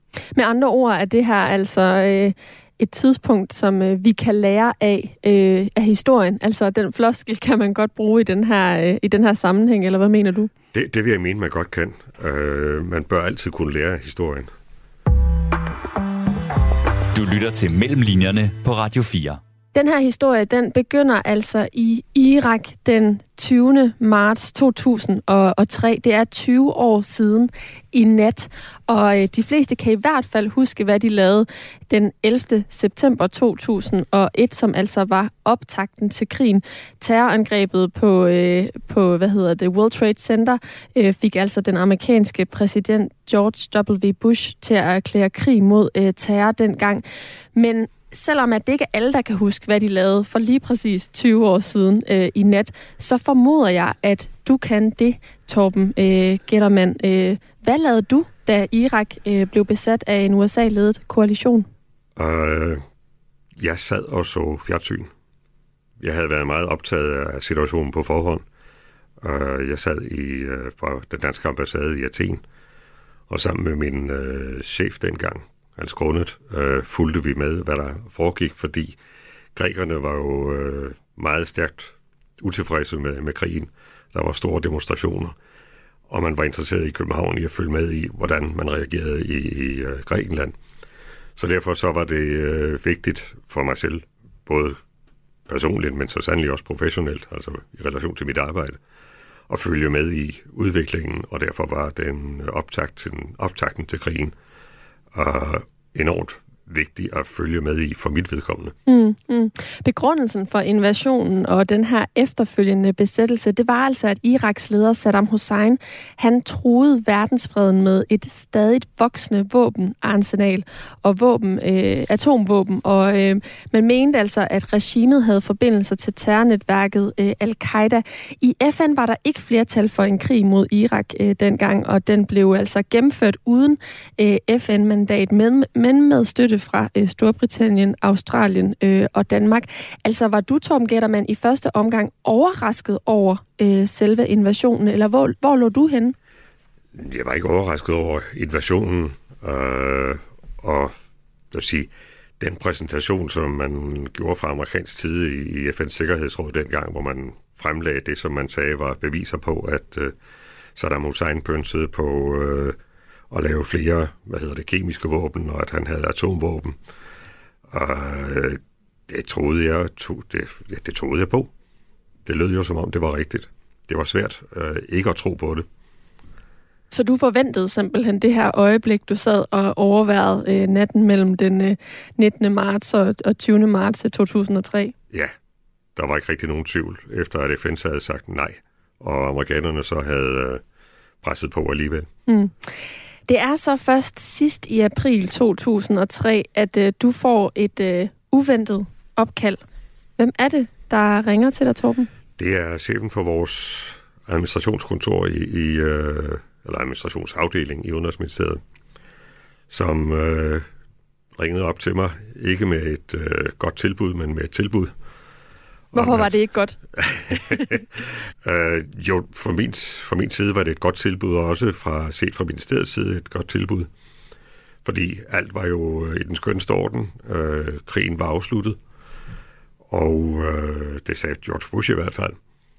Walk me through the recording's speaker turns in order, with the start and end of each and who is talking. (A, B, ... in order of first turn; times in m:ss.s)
0:00.3-0:10.5 A
0:10.7-0:14.5 B
0:17.1-0:19.4 C
0:19.7-0:47.0 A
0:47.5-1:01.7 A
1:02.2-1:02.8 B
1:03.6-1:05.1 B
1:06.0-1:08.4 B
1:09.2-1:12.4 B
1:13.3-1:19.0 B
1:19.5-1:25.3 B
1:26.1-1:30.6 B
1:31.4-1:34.8 B
1:35.5-1:38.8 B
1:39.5-1:44.3 B
1:45.1-1:48.7 B
1:48.9-2:26.1 A
2:26.9-2:30.9 B
2:31.5-2:40.1 B
2:40.8-2:42.8 B
2:43.3-2:46.8 B
2:47.7-2:51.5 B
2:52.2-2:55.6 B
2:56.9-3:04.9 A
3:06.0-3:10.6 B
3:11.2-3:12.1 B
3:12.3-3:12.5 A
3:13.3-3:19.6 A
3:20.2-3:22.1 A
3:22.4-3:28.6 B
3:29.7-3:30.6 B
3:31.4-3:34.9 B
3:35.9-3:36.8 A
3:35.9-3:36.3 B
3:37.0-3:43.9 B
3:37.3-3:37.7 A
3:44.8-3:48.8 B
3:49.9-3:52.4 B